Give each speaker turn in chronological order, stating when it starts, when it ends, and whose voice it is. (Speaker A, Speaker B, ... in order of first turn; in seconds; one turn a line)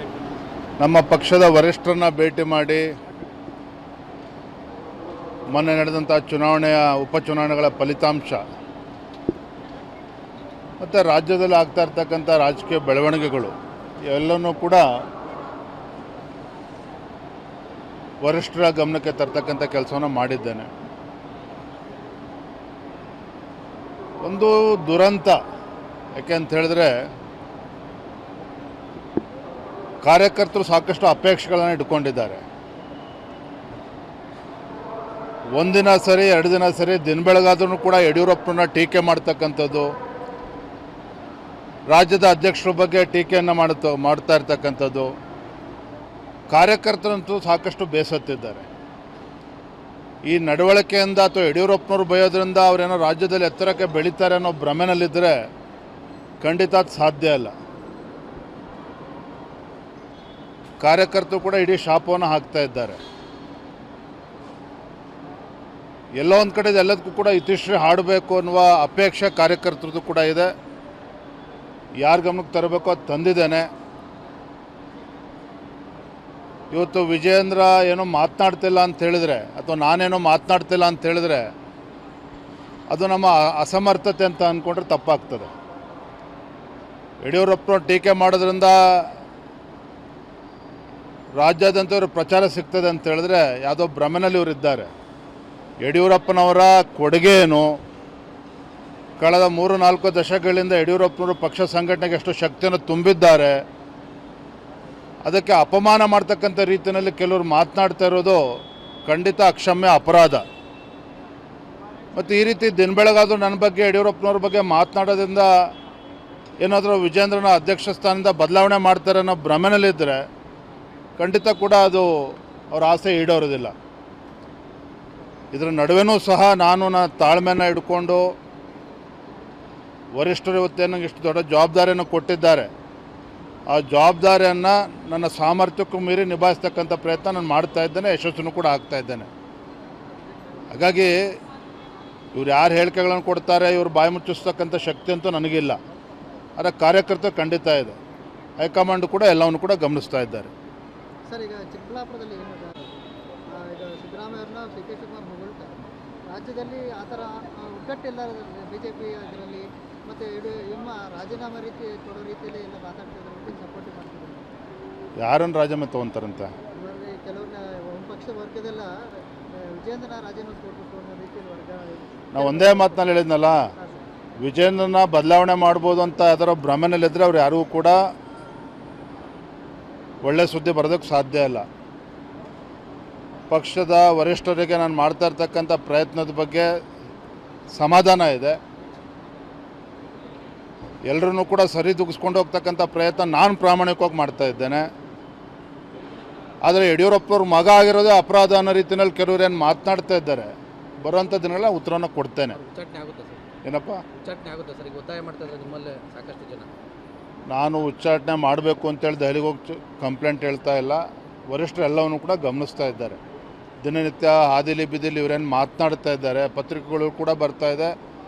Speaker A: 0.8-2.9
Speaker A: 5.5-8.4
Speaker A: 10.8-14.8
Speaker A: 18.2-20.7
Speaker A: 24.2-25.4
Speaker A: 26.1-27.1
Speaker A: 30.0-32.4
Speaker A: 35.5-39.9
Speaker A: 41.9-45.1
Speaker A: 46.5-48.6
Speaker A: 50.2-55.5
Speaker A: 56.4-57.5
Speaker A: 60.8-63.0
Speaker A: 66.2-70.5
Speaker A: 72.0-73.7
Speaker A: 76.7-81.5
Speaker A: 82.9-85.5
Speaker A: 87.2-89.1
Speaker A: 91.3-94.9
Speaker A: 95.8-97.8
Speaker A: 99.2-103.6
Speaker A: 105.2-110.4
Speaker A: 112.1-115.7
Speaker A: 116.6-120.3
Speaker A: 121.2-123.7
Speaker A: 125.5-128.3
Speaker A: 130.1-132.7
Speaker A: 133.7-139.3
Speaker A: 140.7-141.2
Speaker A: 142.3-145.8
Speaker A: 146.6-147.9
Speaker A: 148.6-150.5
Speaker B: 151.3-152.9
Speaker B: 153.5-155.7
Speaker B: 156.3-164.5
Speaker A: 165.2-166.5
Speaker B: 166.7-174.0
Speaker A: 172.3-173.6
Speaker A: 174.4-178.0
Speaker A: 180.2-181.7
Speaker A: 183.5-186.7
Speaker A: 187.7-188.6
Speaker A: 191.0-194.9
Speaker A: 196.6-202.6
Speaker C: 202.5-203.4
Speaker A: 203.6-204.0
Speaker C: 204.2-206.7
Speaker A: 207.5-213.2
Speaker A: 213.8-217.9